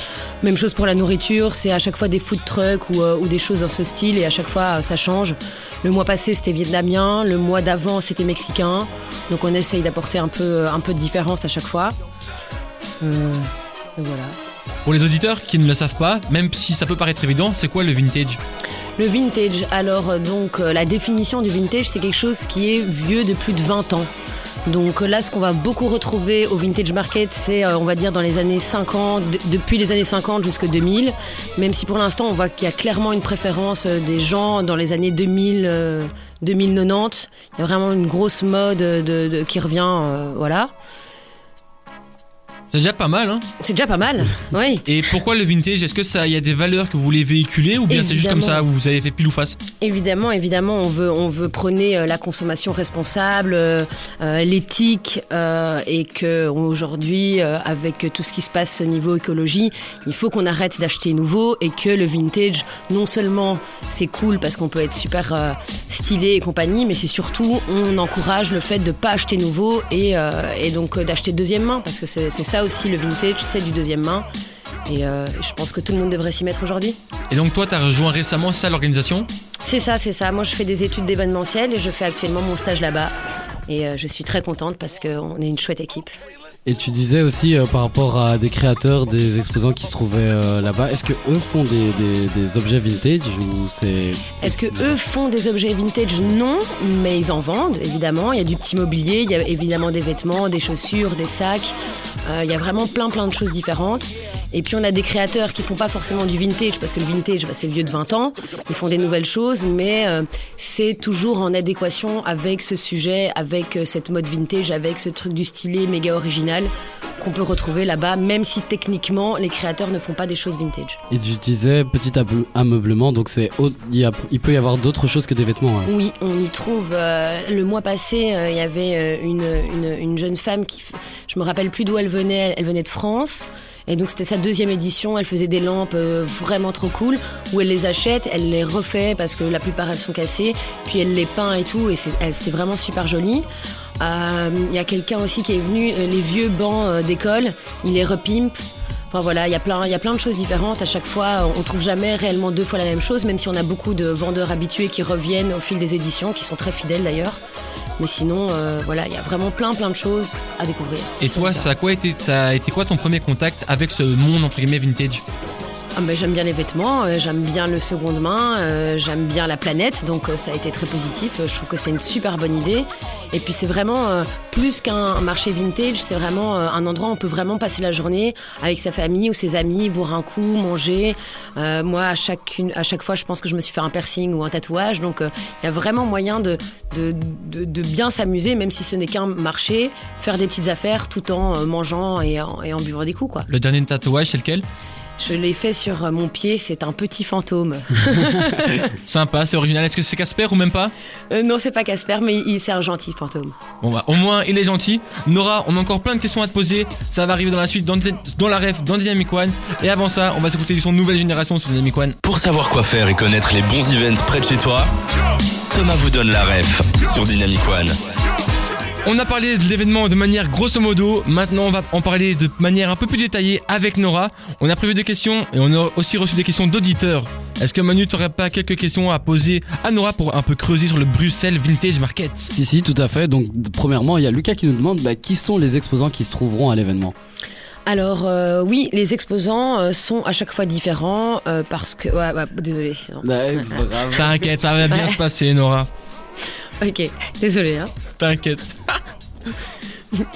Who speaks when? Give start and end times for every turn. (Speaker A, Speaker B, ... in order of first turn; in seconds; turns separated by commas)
Speaker A: 0.4-11.9, Speaker A: 13.0-14.4, Speaker B: 14.8-18.4, Speaker A: 19.0-24.1, Speaker A: 24.6-40.7, Speaker B: 42.7-43.5, Speaker A: 43.6-44.9, Speaker B: 44.9-49.6, Speaker A: 47.9-48.6, Speaker A: 49.8-74.2, Speaker A: 74.8-77.0, Speaker B: 77.3-79.3, Speaker A: 79.6-83.1, Speaker A: 83.7-86.1, Speaker C: 86.7-95.0, Speaker A: 94.4-101.7, Speaker A: 102.2-121.0, Speaker C: 121.1-125.9, Speaker A: 125.8-143.4, Speaker A: 144.0-157.4, Speaker A: 158.0-161.7, Speaker B: 161.2-165.2, Speaker A: 165.9-193.5, Speaker B: 193.5-194.6, Speaker A: 195.2-198.7, Speaker B: 198.7-200.9, Speaker A: 201.3-203.6, Speaker B: 203.8-212.2, Speaker D: 212.2-214.9, Speaker D: 215.7-217.9, Speaker B: 219.0-232.5, Speaker C: 232.5-237.1, Speaker A: 237.8-243.9, Speaker C: 243.2-244.6, Speaker B: 244.1-245.9, Speaker A: 244.9-245.2, Speaker A: 246.8-247.9, Speaker B: 248.2-249.0